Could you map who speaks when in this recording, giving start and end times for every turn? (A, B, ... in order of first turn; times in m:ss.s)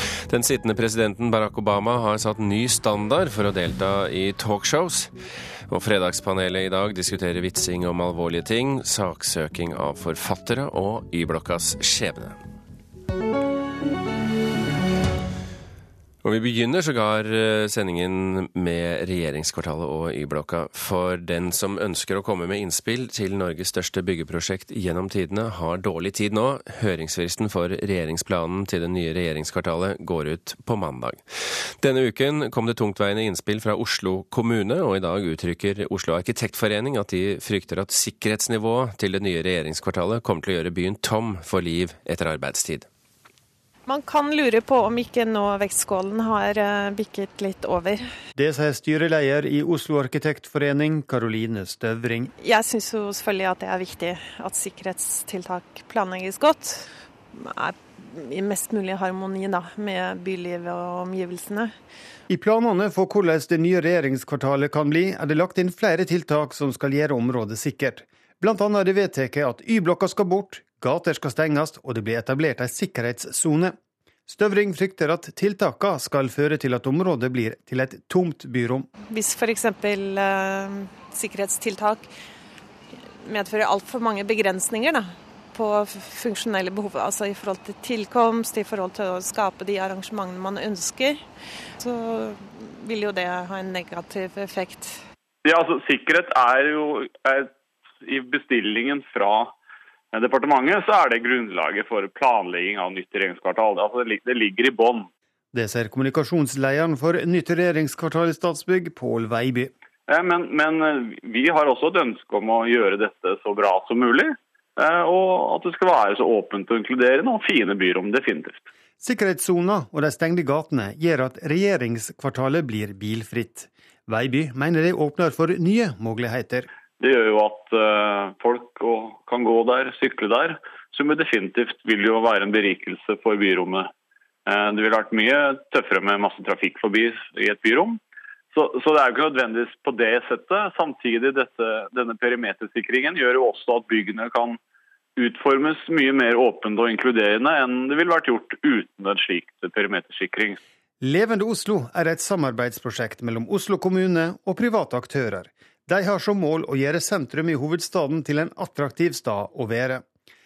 0:00.3-0:05.1 A
0:05.7-0:12.4 A
0:16.2-0:42.9 A
0:43.9-0:48.1 B
0:48.4-0:52.3 C
0:52.4-1:01.7 B
1:02.3-1:13.8 C
1:14.3-1:18.9 C
1:19.1-1:22.1 B
1:23.2-1:31.2 B
1:31.8-1:35.0 B
1:35.4-1:37.5 D
1:38.0-1:39.5 D
1:40.1-1:45.1 D
1:45.5-1:49.7 C
1:50.1-1:58.6 D
1:59.0-2:06.7 C
2:07.0-2:13.9 D
2:14.5-2:18.0 D
2:18.5-2:24.6 D
2:25.2-2:30.6 D
2:31.0-2:40.0 C